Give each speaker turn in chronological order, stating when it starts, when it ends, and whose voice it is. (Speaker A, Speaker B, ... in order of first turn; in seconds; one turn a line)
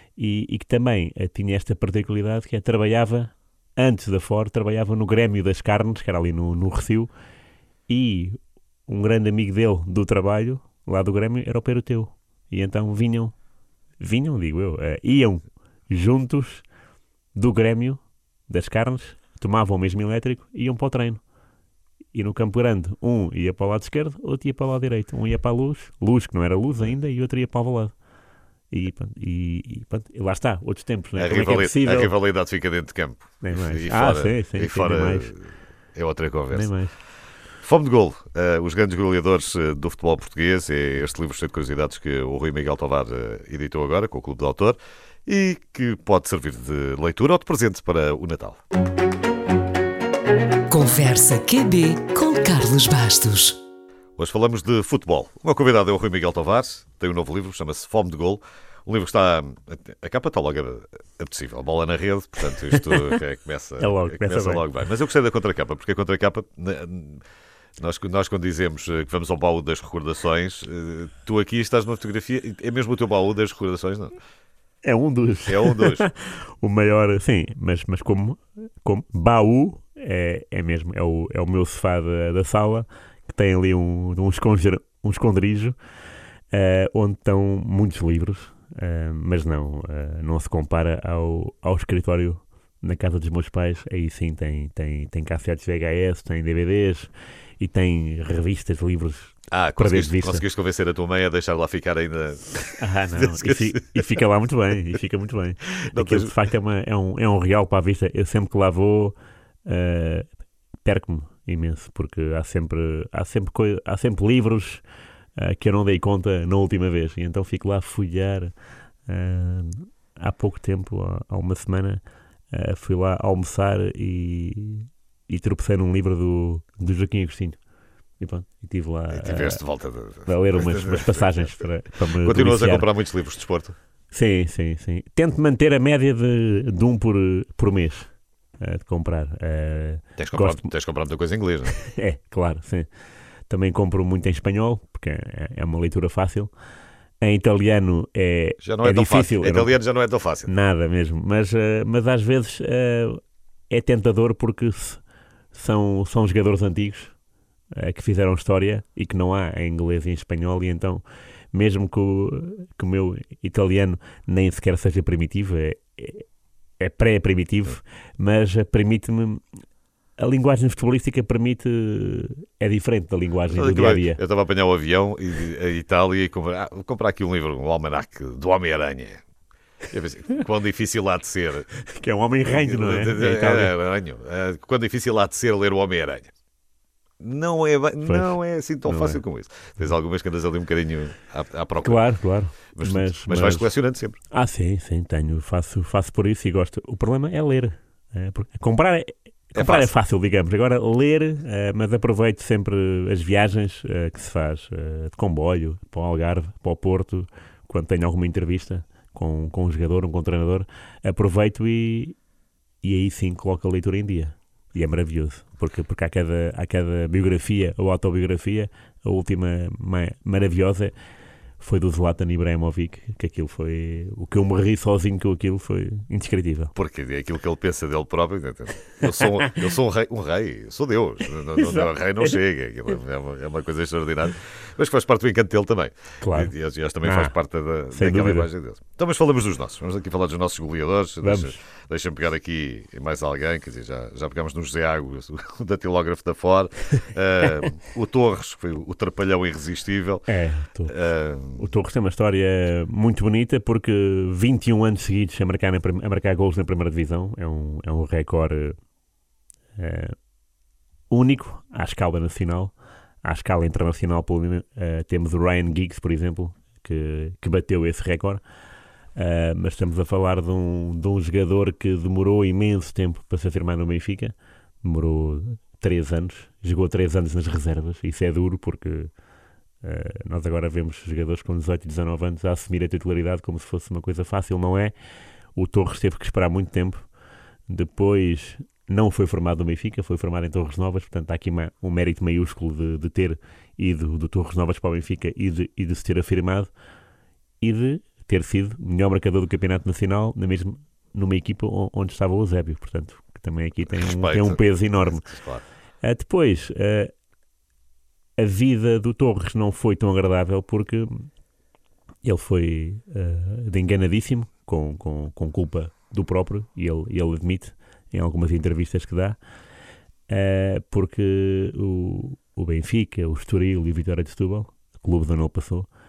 Speaker A: 0.1-7.1
Speaker A: 7.9-13.3
Speaker A: 14.0-16.6
Speaker A: 17.3-21.2
Speaker A: 22.1-27.9
Speaker A: 28.7-32.1
Speaker B: 31.1-36.7
Speaker A: 33.4-35.3
Speaker A: 36.5-36.9
Speaker B: 37.6-48.6
Speaker C: 50.7-53.6
Speaker B: 54.2-67.2
Speaker A: 63.8-64.6
Speaker B: 67.8-74.2
Speaker A: 74.8-85.8
Speaker B: 75.5-76.0
Speaker A: 86.5-100.4
Speaker B: 99.5-104.0
Speaker A: 102.8-109.1
Speaker B: 105.8-106.3
Speaker A: 109.7-110.3
Speaker A: 110.8-114.8
Speaker A: 115.3-118.5
Speaker A: 119.0-127.6
Speaker A: 128.2-129.6
Speaker B: 129.1-131.5
Speaker A: 130.2-132.9
Speaker B: 132.2-133.8
Speaker A: 134.1-140.7
Speaker B: 140.2-141.8
Speaker A: 141.7-142.9
Speaker A: 143.5-146.5
Speaker A: 147.2-149.8
Speaker B: 148.6-150.5
Speaker A: 150.4-155.0
Speaker A: 155.5-157.1
Speaker A: 157.7-166.3
Speaker A: 166.8-169.4
Speaker A: 170.2-174.2
Speaker B: 173.5-179.2
Speaker B: 179.9-181.7
Speaker A: 181.8-183.7
Speaker B: 182.5-186.3
Speaker B: 187.2-192.1
Speaker A: 188.0-189.2
Speaker A: 191.8-193.7
Speaker B: 192.7-194.2
Speaker A: 194.3-212.2
Speaker B: 199.5-199.9
Speaker A: 212.8-220.9
Speaker A: 221.6-226.7
Speaker B: 226.7-250.2
Speaker A: 231.6-232.3
Speaker A: 236.2-236.5
Speaker A: 237.0-237.3
Speaker A: 237.9-238.5
Speaker A: 241.2-241.6
Speaker A: 250.3-250.9
Speaker B: 250.9-251.7
Speaker A: 251.6-258.8
Speaker A: 259.8-260.1
Speaker A: 261.1-268.4
Speaker A: 269.1-279.1
Speaker A: 279.8-284.9
Speaker A: 285.5-287.1
Speaker A: 287.7-296.7
Speaker A: 297.6-305.3
Speaker B: 303.9-305.6
Speaker A: 306.0-307.1
Speaker A: 308.4-311.3
Speaker A: 312.2-319.4
Speaker A: 320.3-325.9